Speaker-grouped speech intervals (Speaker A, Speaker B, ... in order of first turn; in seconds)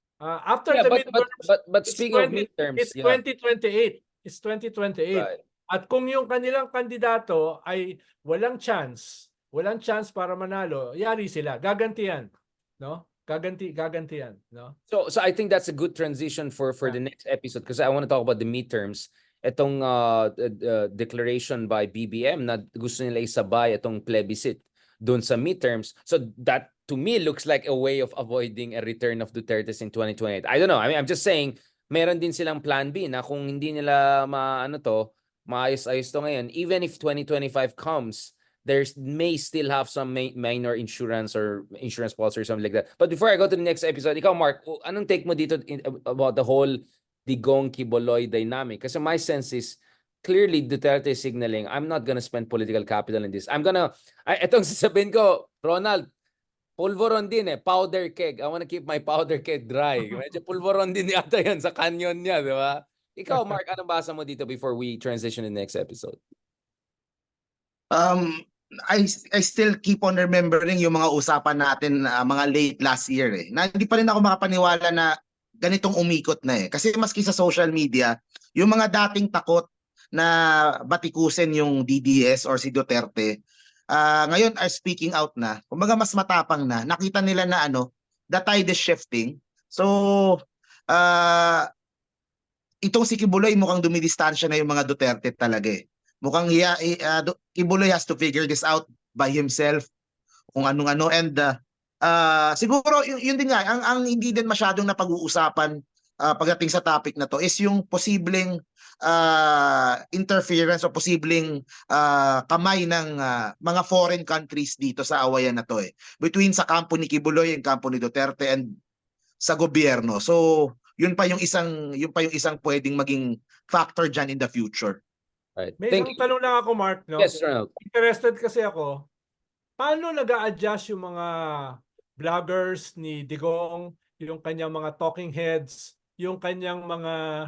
Speaker A: 0.2-14.7, 125.8-128.9, 129.8-131.3, 132.2-137.2
Speaker B: 0.7-3.2, 14.9-56.1, 56.8-66.2, 125.6-126.2, 127.2-127.7
Speaker C: 67.9-68.4, 68.9-75.1, 75.6-80.3, 80.9-83.3, 83.9-90.4, 90.9-91.7, 92.8-99.8, 100.5-101.5, 102.0-118.7, 119.4-125.0